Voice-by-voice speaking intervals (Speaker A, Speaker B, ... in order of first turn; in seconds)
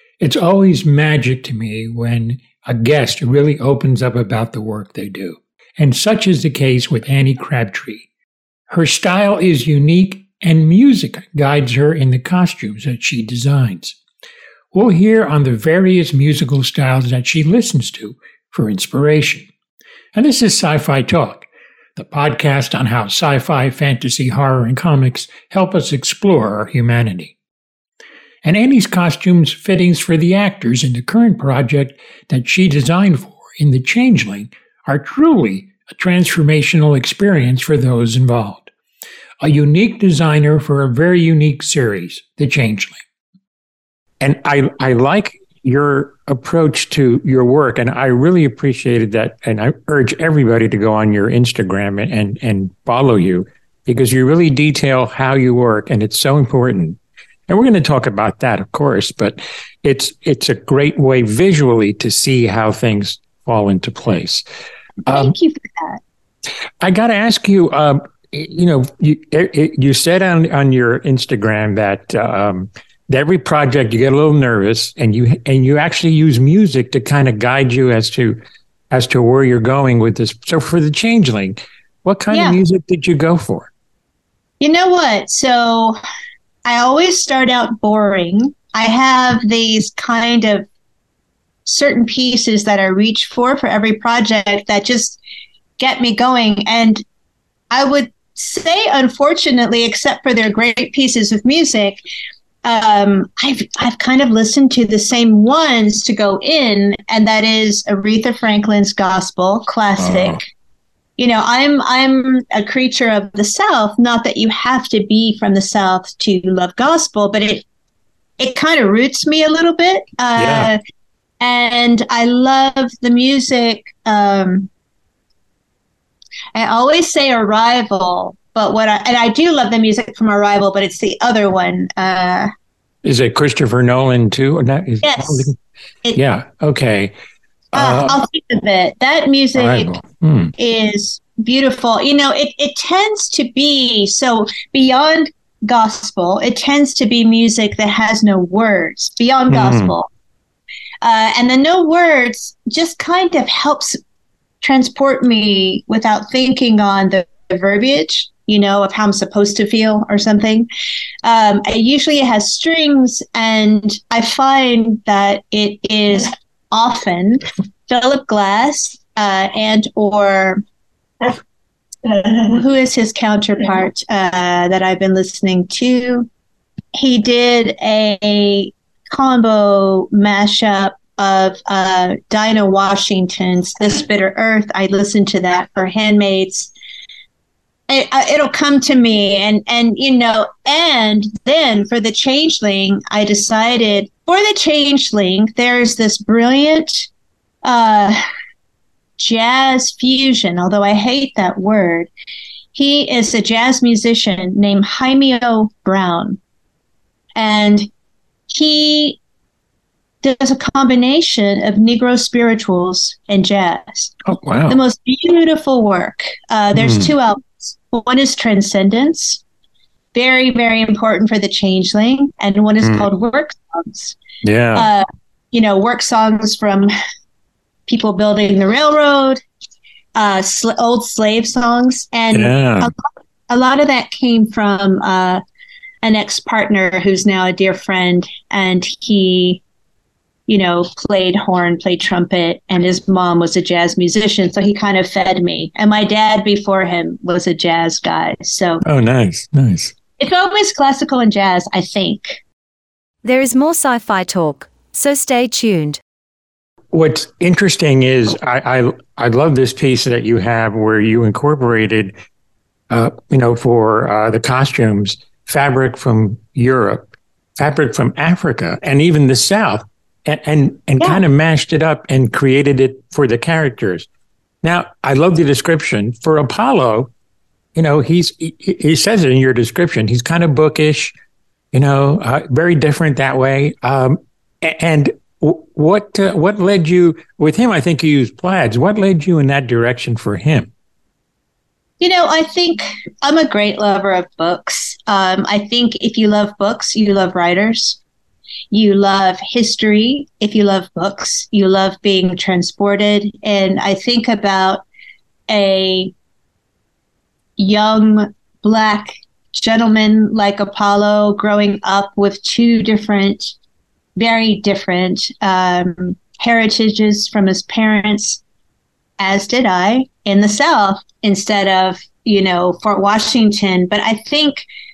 Speaker A: 0.2-8.1, 8.7-14.0, 14.7-19.5, 20.1-27.3, 28.4-38.7, 39.4-43.0, 44.2-64.4, 65.0-65.3, 66.8-78.4, 78.9-83.7, 110.0-110.4, 120.3-120.7, 133.0-135.6, 136.1-137.1, 137.7-138.2, 139.5-140.5, 149.5-149.9, 214.2-214.8, 216.7-217.1, 224.4-224.9, 232.3-232.9, 248.8-249.9, 256.9-262.1, 262.9-274.1, 274.6-277.1, 277.7-281.1, 281.7-290.7
Speaker B: 65.1-66.0, 82.3-82.6, 84.6-86.0, 86.6-90.7, 91.7-95.2, 95.8-97.0, 97.7-102.0, 102.6-110.4, 111.2-117.6, 118.4-120.8, 121.4-124.7, 126.5-132.5, 135.0-135.5, 137.7-140.0, 140.6-150.1, 151.0-154.0, 154.6-160.7, 161.2-170.6, 172.0-176.3, 176.9-186.7, 187.9-197.1, 197.6-198.2, 199.2-202.1, 202.7-206.4, 207.3-207.9, 208.5-209.2, 210.2-214.1, 214.7-219.4, 220.1-224.2, 224.7-226.9, 227.9-229.4, 230.1-235.4, 236.0-239.6, 240.5-248.8, 250.2-252.4, 292.0-298.0, 298.7-304.8, 305.5-306.1, 307.6-313.5, 314.1-318.4, 319.2-324.6
Speaker C: 253.2-256.0